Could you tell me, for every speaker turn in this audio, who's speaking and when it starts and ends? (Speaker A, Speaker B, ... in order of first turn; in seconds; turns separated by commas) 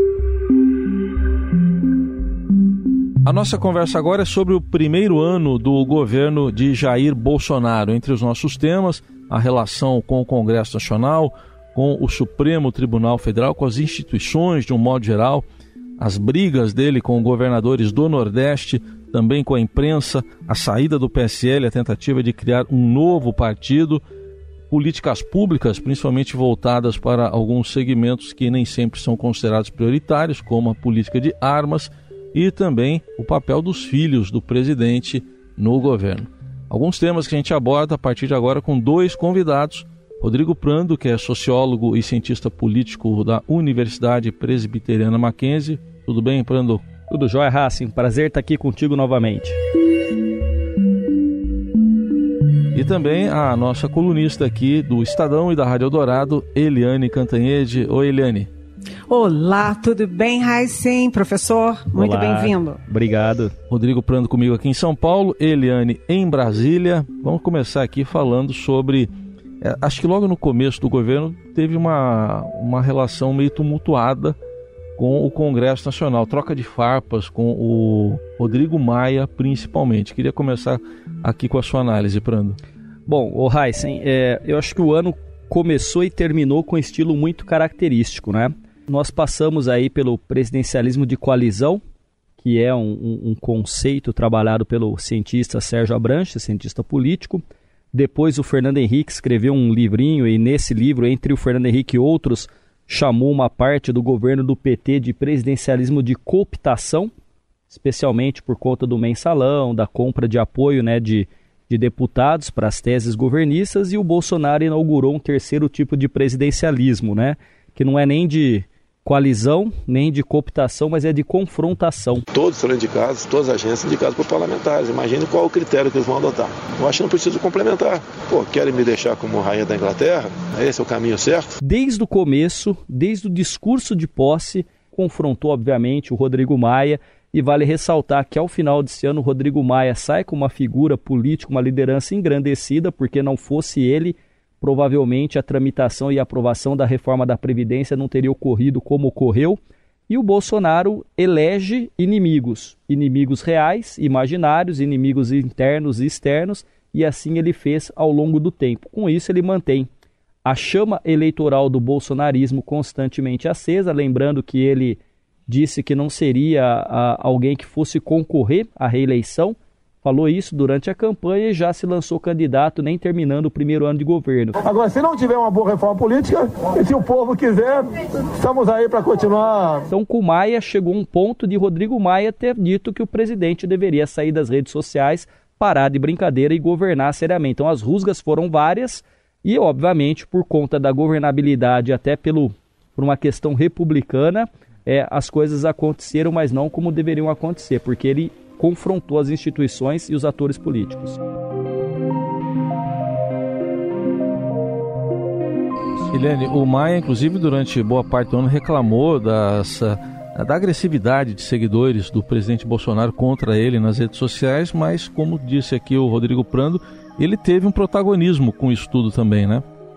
Speaker A: 3.2-15.4, Speaker A: 16.0-24.0, Speaker A: 24.7-46.8, Speaker B: 47.1-49.6, Speaker A: 52.7-58.5, Speaker C: 59.1-62.8, Speaker B: 62.0-63.5, Speaker A: 63.7-69.1, Speaker A: 69.6-74.4, Speaker A: 75.0-82.6, Speaker B: 83.1-91.8, Speaker B: 92.4-107.1, Speaker B: 107.7-122.2, Speaker D: 122.3-126.4, Speaker E: 124.0-128.5, Speaker D: 127.1-131.5, Speaker B: 131.6-159.9, Speaker B: 160.5-174.6, Speaker E: 174.6-179.8, Speaker B: 179.9-201.2, Speaker A: 206.1-219.6